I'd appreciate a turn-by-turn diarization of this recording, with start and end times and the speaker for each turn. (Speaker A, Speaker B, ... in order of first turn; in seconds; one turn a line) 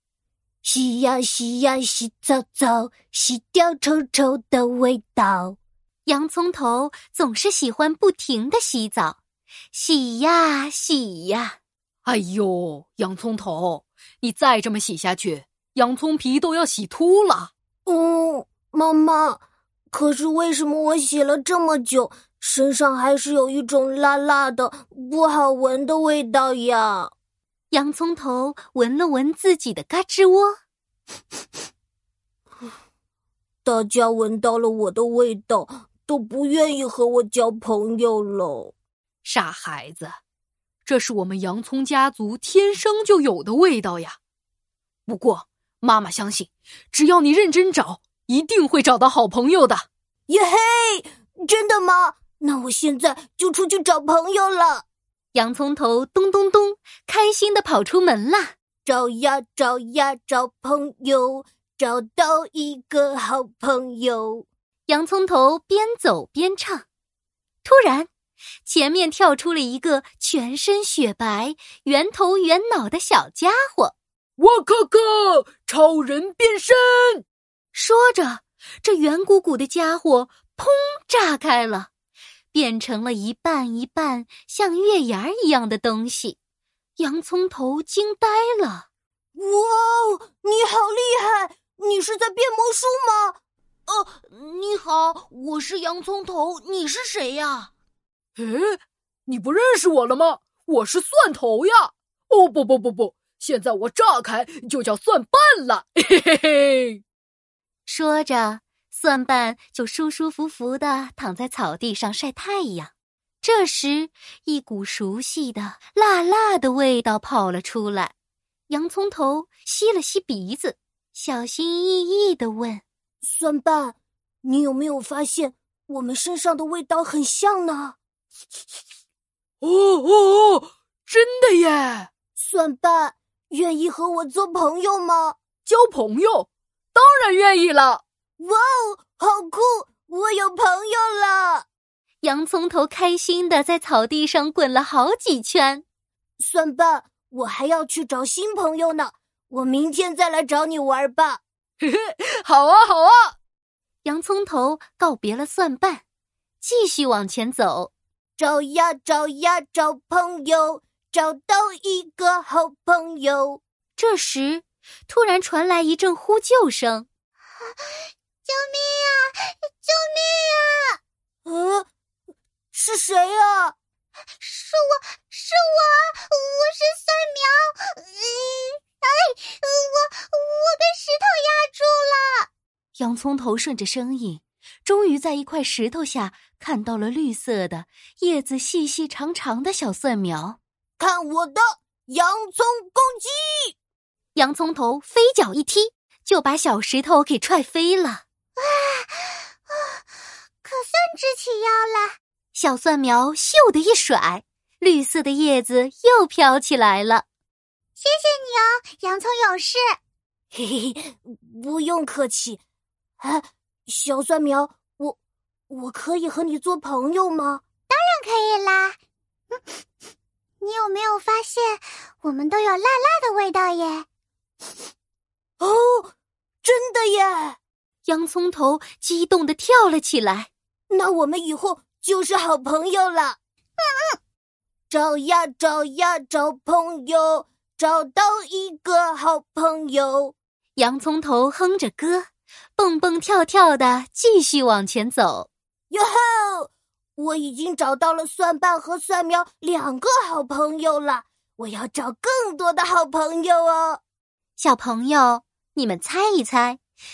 Speaker A: 0.7-5.6
Speaker B: 6.1-9.2
Speaker B: 9.7-11.6
Speaker C: 12.1-17.5
Speaker A: 17.9-27.1
Speaker B: 27.7-30.6
Speaker A: 33.6-38.7
Speaker C: 39.2-40.2
Speaker C: 40.9-44.2
Speaker C: 45.1-49.9
Speaker A: 50.3-54.9
Speaker B: 55.3-58.5
Speaker A: 58.9-64.5
Speaker B: 64.9-66.9
Speaker B: 67.6-68.1
Speaker B: 68.7-74.0
Speaker C: 74.4-77.2
Speaker B: 77.7-81.9
Speaker B: 82.5-86.4
Speaker B: 87.0-88.9
Speaker A: 89.3-93.4
Speaker A: 95.4-97.7
Speaker C: 98.4-107.0
Speaker B: 107.9-118.1
Speaker B: 118.7-122.8
Speaker A: 123.2-128.0
Speaker C: 129.6-132.1
Speaker A: 132.4-135.4
Speaker C: 135.7-138.0
Speaker A: 138.4-141.7
Speaker B: 142.2-145.8
Speaker A: 146.4-151.4
Speaker C: 151.8-153.3
Speaker B: 154.0-156.0
Speaker B: 156.6-157.9
Speaker A: 158.4-163.6
Speaker B: 164.0-167.1
Speaker D: 167.7-171.0
Speaker A: 171.4-171.9
Speaker A: 172.7-173.8
Speaker D: 174.4-182.5
Speaker B: 183.0-190.6
Speaker A: 191.0-193.7
Speaker B: 194.3-198.2
Speaker D: 198.6-200.0
Speaker D: 200.6-202.2
Speaker B: 202.5-207.3
Speaker D: 208.0-210.0
Speaker A: 210.5-212.6
Speaker A: 213.2-215.2
Speaker A: 215.7-217.7
Speaker D: 217.9-219.0
Speaker D: 220.6-224.1
Speaker A: 225.6-226.1
Speaker A: 226.6-227.6
Speaker B: 228.1-230.5
Speaker A: 230.9-233.4
Speaker D: 233.8-234.2
Speaker A: 234.9-240.3
Speaker B: 240.8-245.5
Speaker A: 245.9-254.0
Speaker B: 254.6-256.8